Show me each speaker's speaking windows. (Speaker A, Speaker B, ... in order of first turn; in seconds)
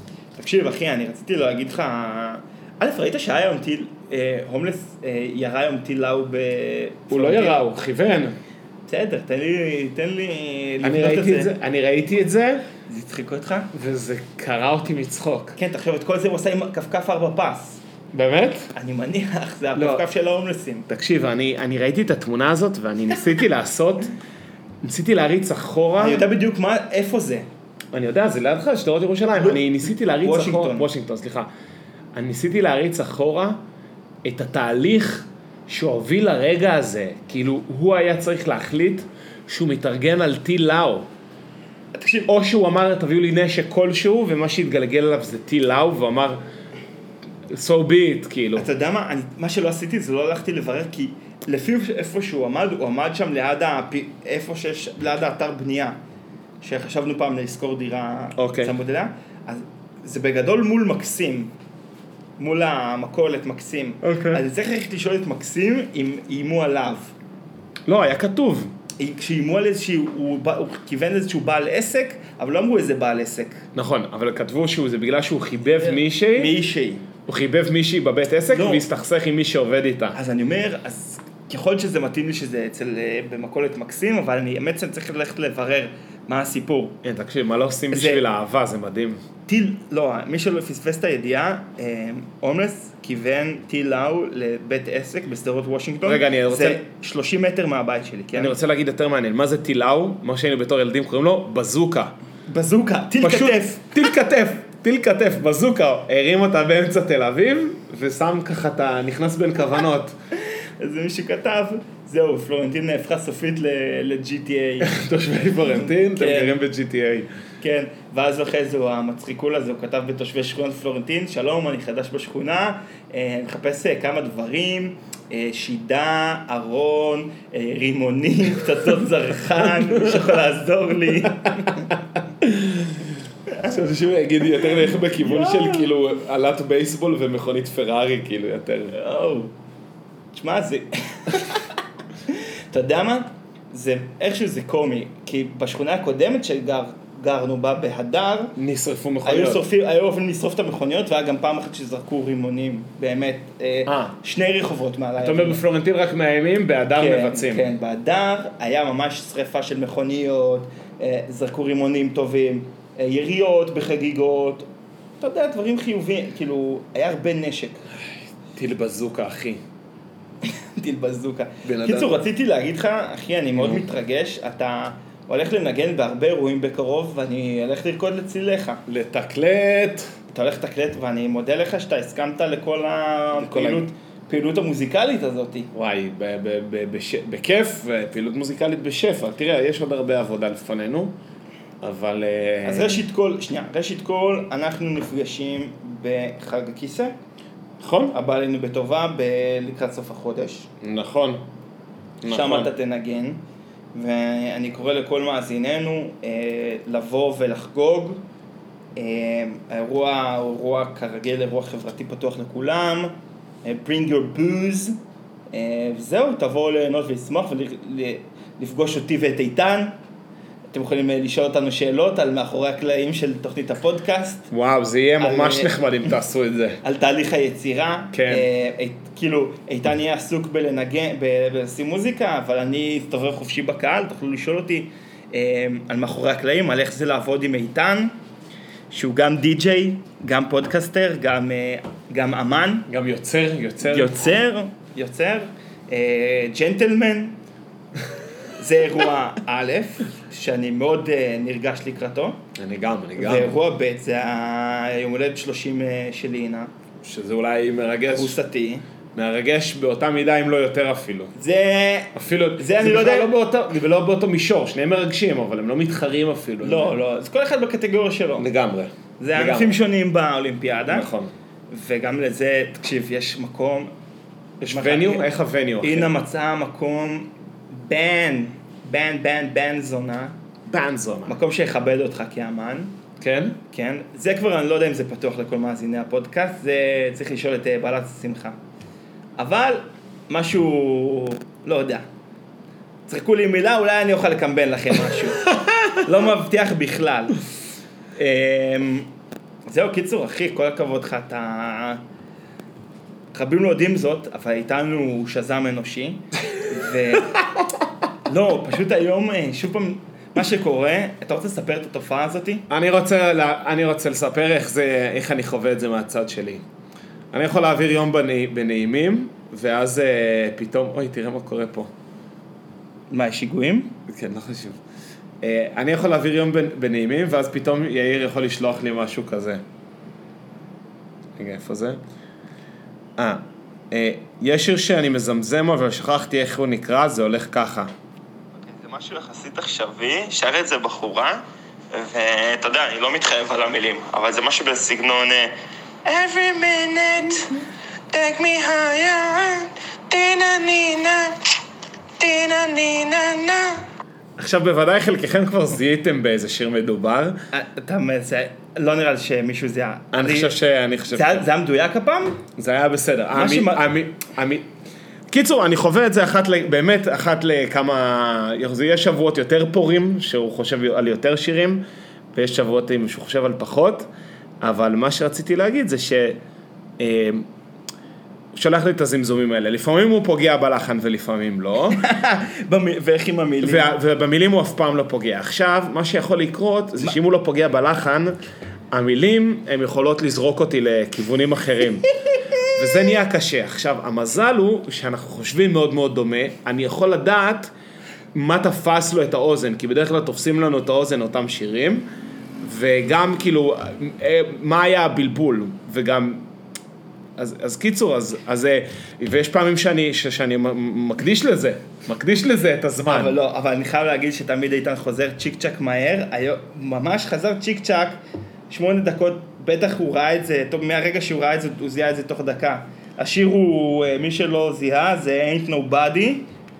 Speaker A: 0.4-7.6, 8.9-11.5, 12.9-13.7, 15.6-17.8, 18.7-20.9, 26.0-27.5, 29.4-30.9, 41.9-42.3, 48.6-56.0, 56.6-61.5, 62.4-67.1, 69.0-73.7, 76.3-77.0, 78.5-78.8, 80.1-87.0, 87.9-88.2, 89.5-98.5, 102.5-103.9, 110.8-114.9, 115.7-116.6, 117.6-131.9, 133.5-133.8, 135.1-135.9, 138.9-139.5, 140.3-148.6, 149.2-155.6, 157.0-164.7, 165.2-167.8, 170.4-178.8, 180.3-185.7, 192.6-197.1, 198.1-200.7, 202.3-203.4, 203.9-208.2, 209.0-213.1, 213.6-215.0, 215.5-220.0, 220.7-224.5, 225.2-225.8, 226.8-238.1, 238.9-242.9, 243.8-247.4, 248.6-252.4, 253.2-256.7, 258.1-258.8, 261.4-263.3, 266.6-268.5, 269.2-271.1, 271.7-273.9, 274.6-280.4, 281.3-282.9, 283.7-288.6, 289.4-292.1, 293.1-297.4, 298.2-299.1, 299.7-302.0, 303.3-307.4, 308.3-312.7, 323.1-324.0, 338.6-345.5, 346.1-347.6, 348.2-349.3, 357.5-360.6, 361.1-362.4, 363.3-363.9, 381.9-383.9, 413.1-418.2, 418.7-426.5
Speaker B: 7.1-8.4, 10.8-12.7, 13.7-15.6, 18.1-18.7, 19.8-20.0, 20.9-24.1, 24.8-26.3, 27.9-31.5, 32.1-33.6, 34.2-41.1, 42.3-46.4, 47.5-48.7, 58.4-58.7, 64.0-64.4, 67.9-68.7, 73.8-76.5, 77.3-80.2, 87.0-89.2, 96.0-96.8, 98.3-102.1, 103.2-110.2, 114.8-117.3, 129.6-130.3, 131.3-133.1, 133.7-138.9, 148.6-149.7, 153.9-154.1, 155.2-157.7, 168.5-169.6, 171.6-172.2, 173.6-173.9, 178.9-180.1, 183.3-183.9, 185.7-191.2, 191.8-193.0, 197.8-198.1, 200.8-201.4, 202.2-202.7, 224.5-226.8, 228.1-228.5, 242.9-244.3, 252.6-253.6, 257.0-258.4, 259.1-261.3, 262.1-267.0, 268.4-269.8, 270.9-271.3, 274.7-276.1, 280.7-281.4, 283.2-283.6, 312.7-316.6, 317.3-321.9, 324.1-324.8, 325.4-329.6, 331.4-332.0, 333.2-337.9, 354.4-357.4, 360.1-361.4, 362.6-364.7, 365.3-371.8, 372.3-374.1, 374.6-376.4, 377.0-377.5, 378.5-382.0, 383.6-388.4, 388.9-392.1, 392.6-397.7, 398.3-402.1, 402.6-406.5, 407.4-413.4
Speaker C: 350.3-351.2, 352.2-353.4